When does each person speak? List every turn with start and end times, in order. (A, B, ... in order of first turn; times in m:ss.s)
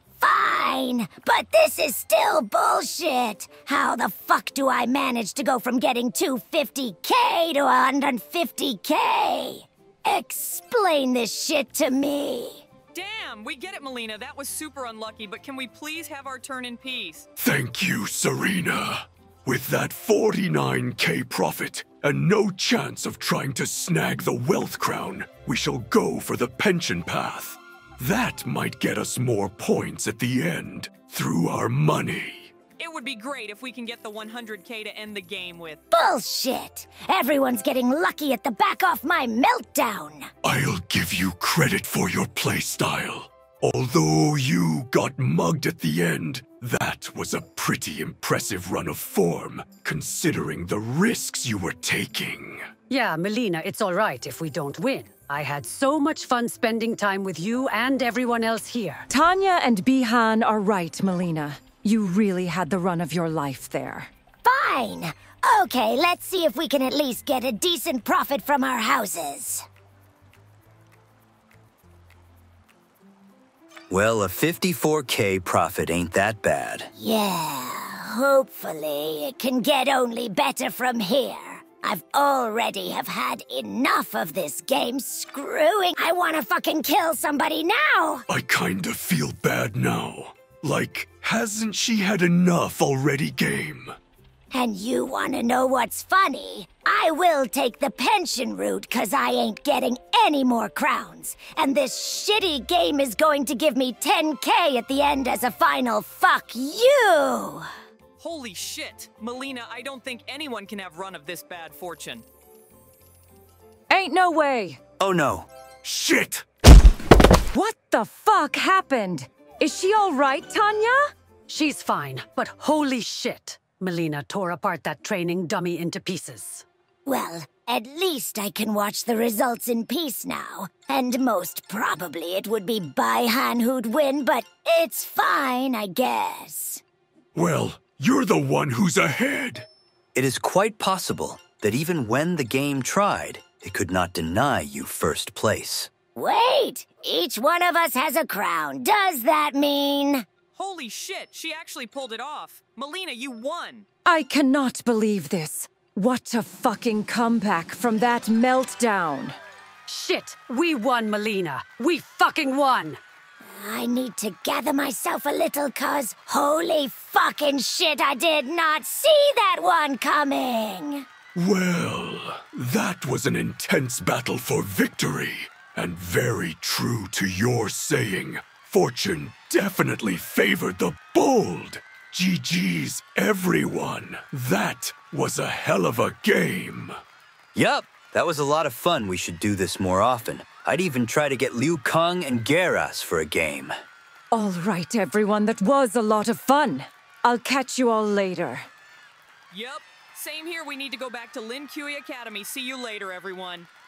0:00.2-0:12.7 A
0:12.9-0:17.3 B
0:17.4-0:32.5 C
0:32.8-0:35.8 B
0:35.9-0:40.3 A
0:40.4-0:52.7 C
0:52.9-0:59.1 D
0:59.1-1:04.1 E
1:04.4-1:09.6 A
1:13.9-1:16.9 F
1:17.0-1:28.3 A
1:28.3-1:34.0 C
1:34.5-1:47.7 A
1:48.2-1:52.2 B
1:53.9-1:54.8 E
1:55.0-1:55.5 F
1:55.8-1:56.4 C
1:57.5-2:01.1 E
2:01.5-2:06.6 D
2:07.0-2:16.8 A
2:17.4-2:19.7 C
2:20.1-2:25.9 F
2:26.2-2:30.2 A
2:30.6-2:33.9 B
2:34.1-2:39.4 E
2:39.9-2:43.0 D
2:43.4-2:51.1 A
2:51.4-3:07.0 C
3:07.6-3:13.7 F
3:14.3-3:18.7 E
3:19.5-3:23.7 B